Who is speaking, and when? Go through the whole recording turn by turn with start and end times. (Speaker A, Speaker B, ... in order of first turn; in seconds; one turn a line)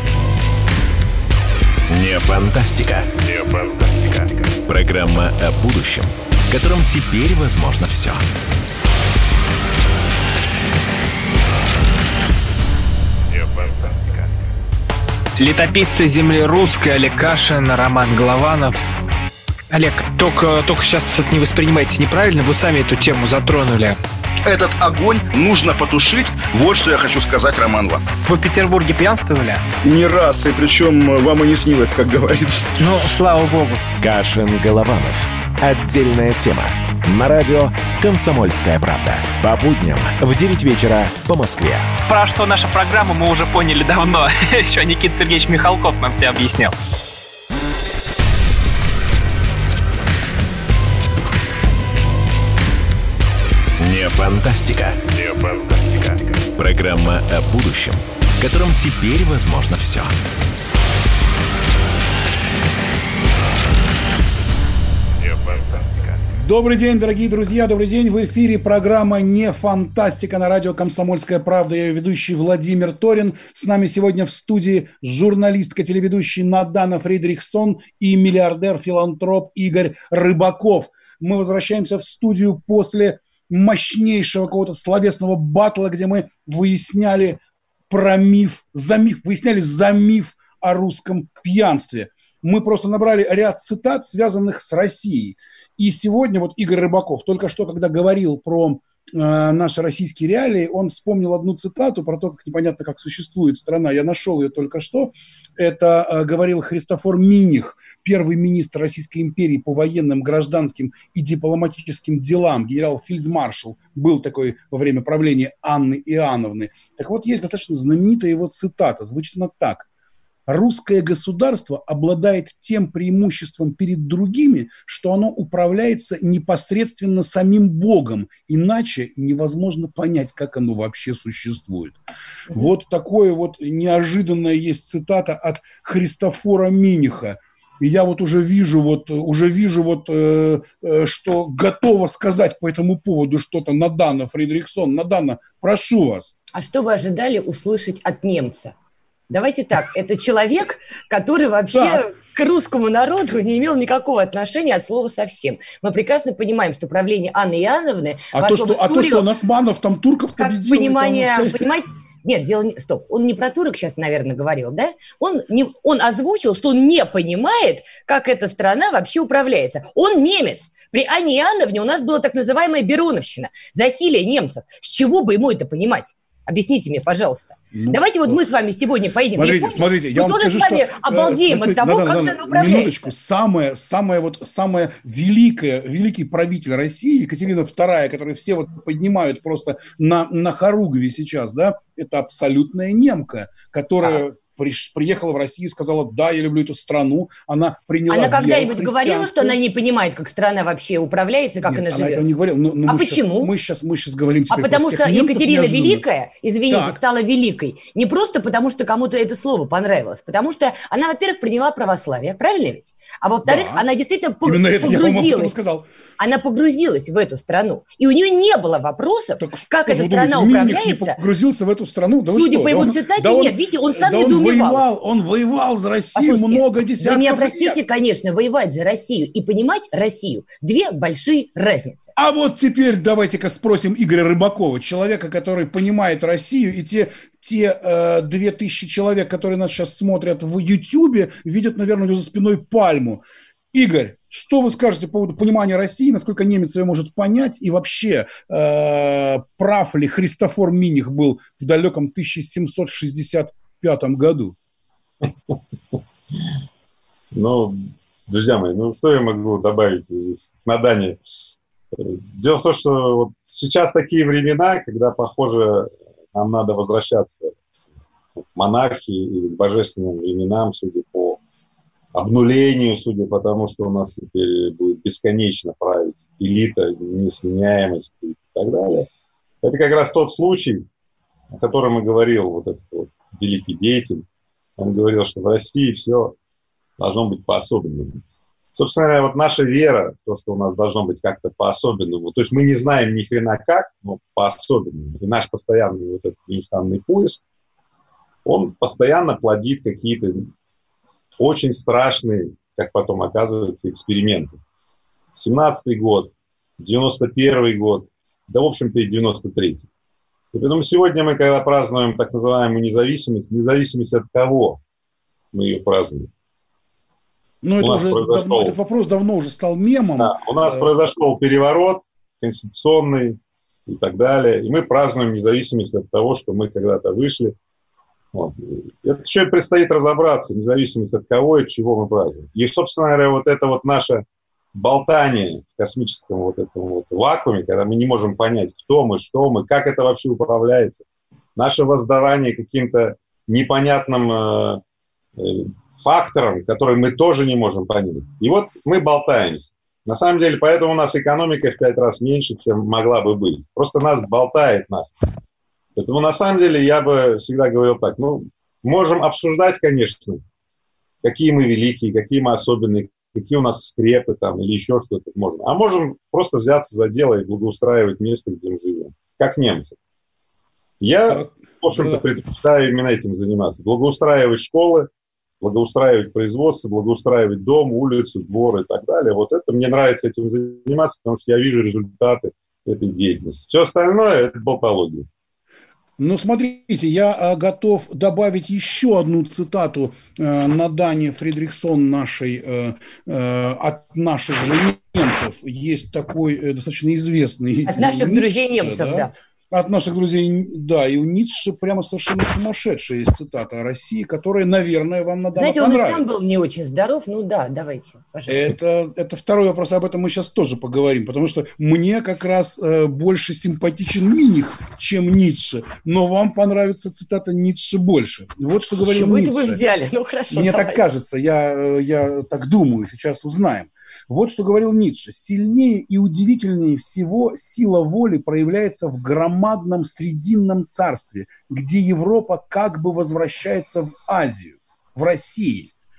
Speaker A: 1.9-3.1
Speaker A: 4.7-8.2
Speaker B: 15.4-18.8
Speaker B: 19.7-24.0
Speaker C: 24.4-28.1
Speaker B: 28.2-29.7
Speaker C: 29.8-32.8
Speaker B: 32.8-33.8
Speaker A: 34.0-41.9
Speaker B: 42.1-46.7
Speaker A: 53.8-55.0
Speaker A: 56.6-60.1
Speaker D: 66.3-119.9
Speaker D: 120.5-132.0
Speaker D: 132.5-146.3
Speaker E: 146.5-148.7
Speaker E: 149.3-159.3
Speaker D: 151.7-152.0
Speaker D: 158.3-161.6
Speaker E: 160.4-183.1
Speaker D: 177.7-178.4
Speaker D: 179.3-199.6
Speaker E: 198.1-202.3
Speaker D: 201.6-206.0
Speaker E: 202.8-203.5
Speaker E: 204.5-215.6
Speaker D: 206.7-207.0
Speaker D: 213.4-213.8
Speaker D: 214.4-215.8
Speaker E: 216.2-221.2
Speaker D: 219.4-227.8
Speaker E: 222.2-224.8
Speaker E: 226.1-232.1
Speaker D: 232.2-254.6
Speaker F: 257.3-261.2
Speaker F: 261.9-267.5
Speaker F: 268.4-271.4
Speaker F: 272.1-279.1
Speaker F: 279.6-280.8
Speaker F: 281.5-284.2
Speaker F: 284.8-286.3
Speaker F: 287.0-288.2
Speaker F: 288.7-297.4
Speaker F: 298.4-300.5
Speaker F: 301.4-304.6
Speaker F: 305.3-309.8
Speaker F: 310.5-314.8
Speaker F: 315.5-316.3
Speaker D: 317.6-320.9
Speaker F: 317.8-318.8
Speaker F: 320.2-327.5
Speaker F: 328.3-334.2
Speaker F: 334.7-341.0
Speaker F: 341.6-344.8
Speaker F: 345.4-355.1
Speaker F: 355.9-360.4
Speaker F: 361.2-369.9
Speaker F: 371.0-375.1
Speaker D: 371.3-372.2
Speaker F: 375.6-385.3
Speaker D: 386.2-406.3
Speaker E: 397.9-399.3
Speaker E: 405.5-408.7
Speaker D: 408.5-419.8
Speaker E: 419.0-421.0
Speaker D: 420.5-435.9